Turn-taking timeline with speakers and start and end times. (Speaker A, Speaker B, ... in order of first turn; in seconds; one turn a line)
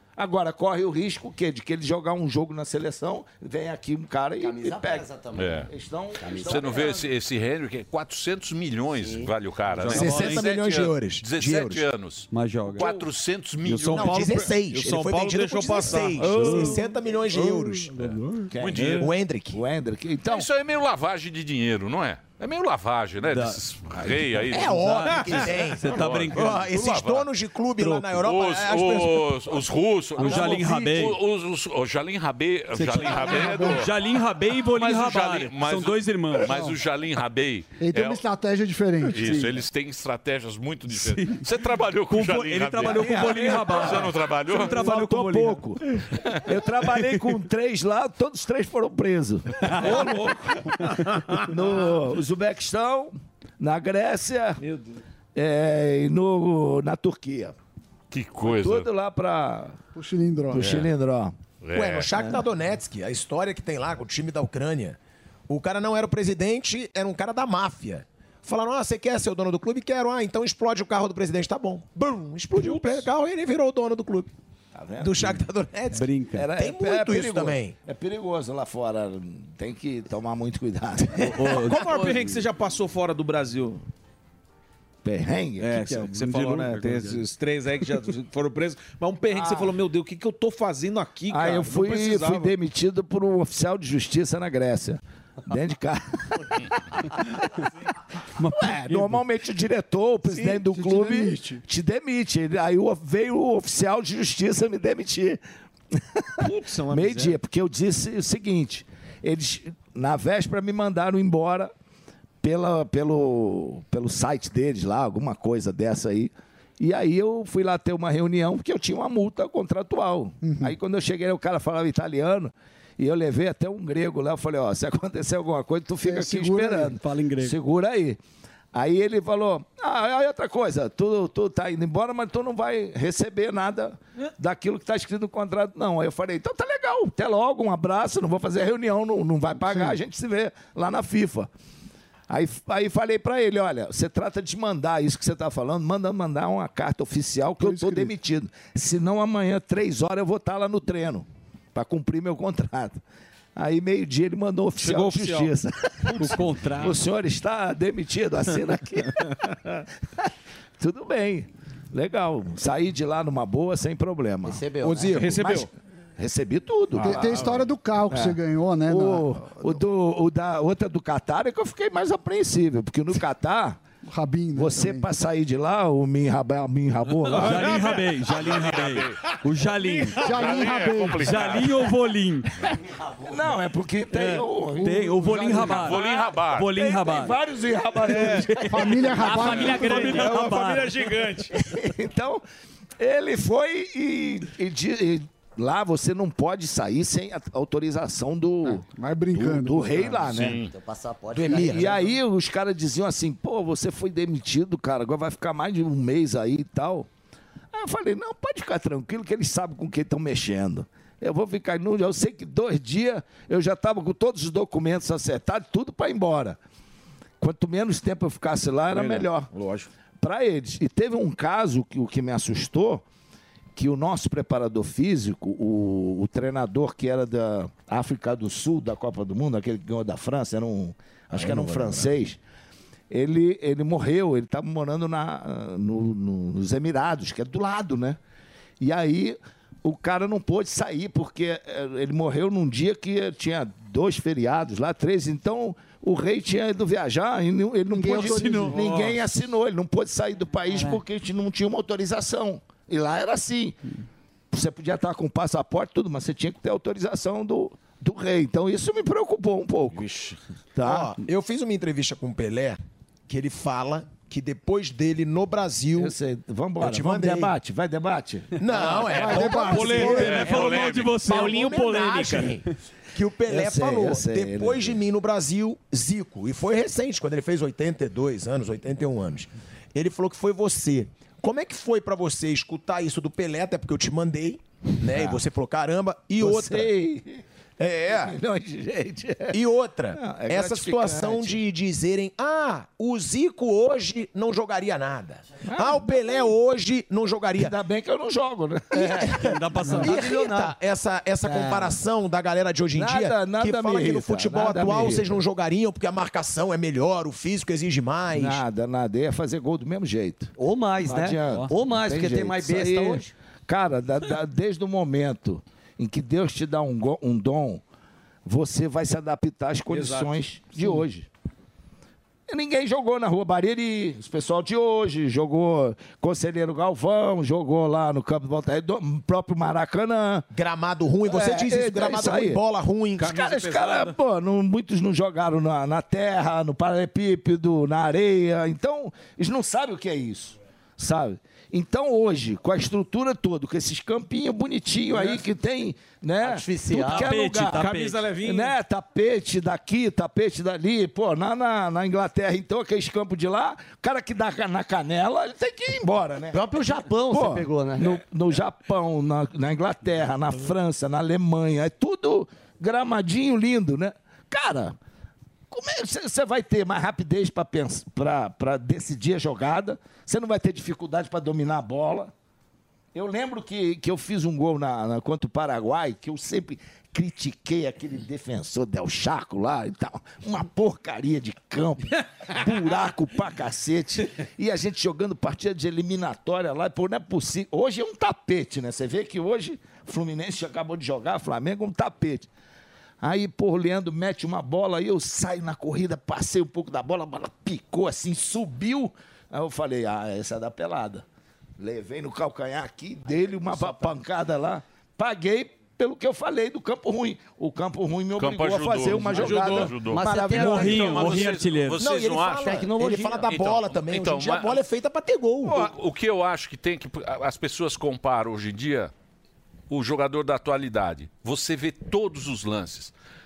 Speaker A: 0.2-5.1
Speaker B: 4.4-5.6
Speaker C: 5.3-5.7
Speaker A: 5.7-7.0
Speaker B: 6.2-7.0
Speaker C: 6.3-14.4
Speaker B: 8.9-9.3
Speaker D: 9.8-10.4
Speaker E: 9.9-11.8
Speaker D: 12.3-13.0
Speaker F: 13.6-19.1
Speaker E: 13.8-18.0
Speaker D: 16.3-16.7
Speaker A: 18.5-18.9
Speaker C: 18.6-19.1
Speaker E: 18.9-19.6
Speaker A: 19.5-20.4
Speaker C: 20.2-24.8
Speaker D: 23.2-23.6
Speaker E: 24.5-29.6
Speaker D: 24.7-26.7
Speaker C: 25.8-27.3
Speaker C: 28.0-33.9
Speaker D: 30.2-31.2
Speaker A: 30.4-30.7
Speaker D: 32.7-36.6
Speaker G: 33.3-33.7
Speaker C: 34.6-38.2
Speaker G: 37.8-39.5
Speaker C: 39.1-44.9
Speaker D: 40.9-45.6
Speaker A: 42.9-43.8
Speaker A: 44.6-50.3
Speaker F: 49.7-51.6
Speaker D: 49.7-50.0
Speaker A: 51.4-54.6
Speaker F: 54.6-55.0
Speaker A: 55.3-57.5
Speaker C: 58.1-58.9
Speaker A: 58.4-59.8
Speaker G: 59.9-60.8
Speaker A: 60.5-61.3
Speaker C: 60.6-60.9
Speaker C: 61.6-62.1
Speaker E: 61.7-65.0
Speaker E: 65.5-74.3
Speaker F: 72.5-73.1
Speaker A: 74.7-75.4
Speaker E: 75.0-77.8
Speaker D: 75.9-76.5
Speaker A: 76.3-81.5
Speaker D: 81.2-82.2
Speaker F: 81.6-83.8
Speaker A: 85.0-86.1
Speaker F: 85.6-92.5
Speaker D: 85.8-87.2
Speaker A: 91.3-96.2
Speaker D: 98.4-99.2
Speaker A: 98.6-105.4
Speaker G: 100.3-101.6
Speaker A: 106.2-111.7
Speaker F: 106.4-107.4
Speaker A: 112.4-128.2
Speaker G: 120.4-120.7
Speaker G: 126.0-126.9
Speaker D: 126.5-127.5
Speaker A: 128.7-141.5
Speaker G: 139.6-139.9
Speaker A: 142.3-153.0
Speaker G: 147.6-148.1
Speaker A: 153.6-159.3
Speaker F: 154.8-155.5
Speaker D: 156.1-157.0
Speaker A: 160.8-164.7
Speaker B: 164.4-165.2
Speaker E: 164.8-165.4
Speaker F: 165.0-165.7
Speaker A: 165.2-173.8
Speaker G: 167.0-169.8
Speaker F: 167.1-167.4
Speaker G: 174.1-175.1
Speaker A: 174.6-177.8
Speaker D: 177.3-180.5
Speaker F: 177.4-177.9
Speaker C: 177.8-179.2
Speaker C: 180.0-181.9
Speaker G: 180.2-181.4
Speaker D: 181.2-182.5
Speaker A: 183.2-186.1
Speaker D: 184.8-187.4
Speaker C: 185.5-186.8
Speaker A: 186.6-188.8
Speaker F: 188.1-188.5
Speaker D: 188.1-191.1
Speaker G: 188.6-190.2
Speaker F: 189.2-191.5
Speaker A: 191.5-192.4
Speaker A: 193.0-200.6
Speaker G: 198.7-200.2
Speaker C: 200.3-200.7
Speaker B: 200.6-202.1
Speaker E: 201.3-202.1
Speaker A: 201.5-207.1
Speaker A: 207.7-216.6
Speaker A: 217.4-219.5
Speaker F: 218.9-219.9
Speaker A: 220.2-223.0
Speaker A: 223.8-232.4
Speaker A: 233.1-238.2
Speaker A: 238.8-253.8
Speaker G: 247.9-248.9
Speaker D: 248.1-249.1
Speaker A: 254.5-260.0
Speaker A: 260.8-261.1
Speaker E: 260.8-266.1
Speaker A: 266.0-269.1
Speaker E: 266.8-267.5
Speaker E: 268.6-286.9
Speaker G: 269.1-270.6
Speaker D: 269.4-272.6
Speaker C: 269.9-271.2
Speaker A: 273.4-275.0
Speaker A: 285.1-285.4
Speaker A: 286.4-287.4
Speaker E: 287.8-288.4
Speaker A: 288.0-289.6
Speaker E: 289.5-297.7
Speaker A: 290.1-291.6
Speaker A: 295.6-296.5
Speaker A: 297.6-300.4
Speaker E: 298.9-308.6
Speaker D: 299.4-300.2
Speaker A: 301.5-301.9
Speaker A: 302.9-305.4
Speaker A: 308.3-317.8
Speaker B: 310.6-313.3
Speaker A: 318.4-321.3
Speaker F: 319.9-320.4
Speaker A: 322.5-330.5
Speaker E: 330.5-333.4
Speaker A: 331.2-332.6
Speaker F: 333.2-334.1
Speaker A: 333.2-364.9
Speaker F: 345.1-345.4
Speaker B: 346.4-347.4
Speaker D: 347.0-348.3
Speaker F: 347.6-348.8
Speaker B: 356.5-358.2
Speaker A: 365.7-372.3
Speaker A: 373.1-392.5
Speaker A: 393.2-401.2
Speaker A: 401.8-411.3
Speaker C: 408.4-414.8
Speaker F: 409.2-409.9
Speaker B: 410.0-411.4
Speaker D: 410.5-412.0
Speaker E: 412.0-415.9
Speaker B: 412.6-413.5
Speaker C: 415.6-419.1
Speaker C: 419.9-423.1